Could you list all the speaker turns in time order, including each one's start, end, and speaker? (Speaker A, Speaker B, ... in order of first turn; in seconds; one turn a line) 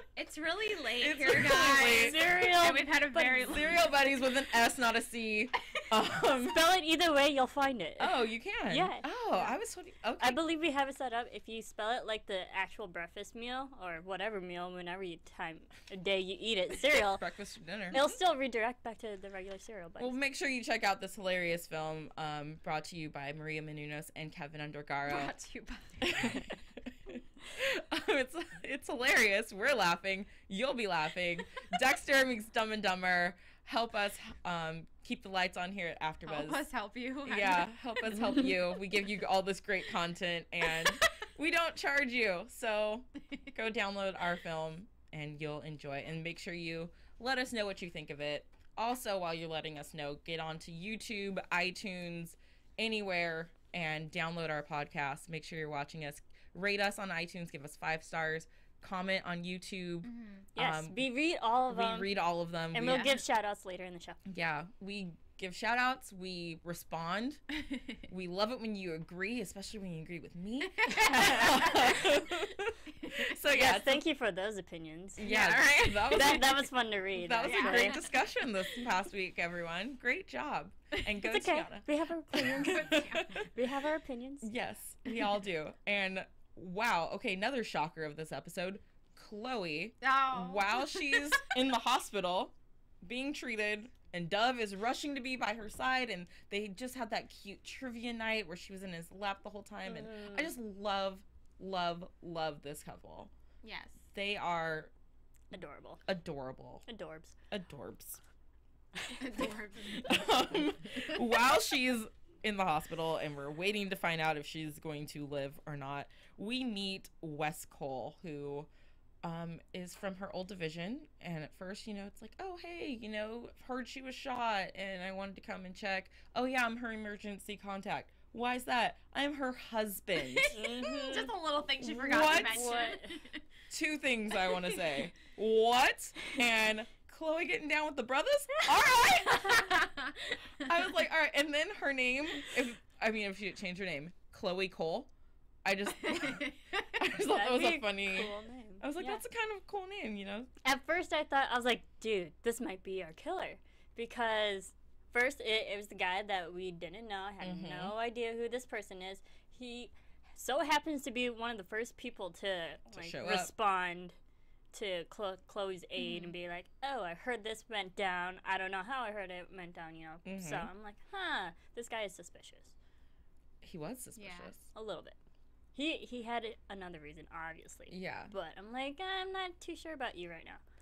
Speaker A: 0.2-3.9
Speaker B: 1.0-2.4
Speaker C: 1.4-3.7
Speaker B: 3.2-6.6
Speaker C: 6.5-8.2
Speaker B: 8.0-10.4
Speaker C: 8.7-9.1
Speaker C: 10.2-17.2
Speaker B: 16.9-18.2
Speaker C: 17.9-20.1
Speaker B: 20.0-25.3
Speaker A: 25.1-26.4
Speaker B: 26.0-36.6
Speaker A: 36.2-38.4
Speaker B: 37.2-61.1
Speaker A: 60.0-60.5
Speaker C: 60.6-62.1
Speaker B: 61.7-63.1
Speaker C: 62.7-64.2
Speaker A: 62.9-63.1
Speaker B: 64.3-67.4
Speaker A: 67.7-68.0
Speaker B: 68.1-74.0
Speaker A: 70.8-72.1
Speaker C: 70.9-71.9
Speaker C: 73.5-75.3
Speaker B: 75.2-83.5
Speaker A: 75.2-76.6
Speaker C: 76.0-78.1
Speaker A: 77.4-78.0
Speaker C: 81.2-84.5
Speaker A: 82.4-83.5
Speaker B: 84.4-103.3
Speaker A: 90.0-91.6
Speaker C: 99.9-100.5
Speaker A: 103.6-104.1
Speaker B: 104.1-104.9
Speaker C: 105.5-106.0
Speaker B: 106.1-106.9
Speaker C: 106.9-107.3
Speaker B: 107.5-108.2
Speaker A: 109.2-111.2
Speaker B: 109.8-118.7
Speaker B: 119.2-130.6
Speaker A: 130.3-133.4
Speaker C: 130.5-131.4
Speaker B: 131.8-132.8
Speaker C: 132.1-133.2
Speaker B: 133.7-139.9
Speaker A: 134.4-135.0
Speaker A: 139.3-140.7
Speaker B: 140.6-145.1
Speaker B: 145.7-150.5
Speaker A: 146.1-146.9
Speaker C: 147.2-149.2
Speaker C: 150.6-164.2
Speaker B: 157.4-157.9
Speaker B: 162.9-163.5
Speaker C: 164.7-172.8
Speaker A: 166.0-166.3
Speaker B: 170.2-170.7
Speaker B: 173.6-174.7
Speaker A: 174.2-174.5
Speaker C: 174.7-175.2
Speaker C: 175.8-180.6
Speaker B: 177.9-178.3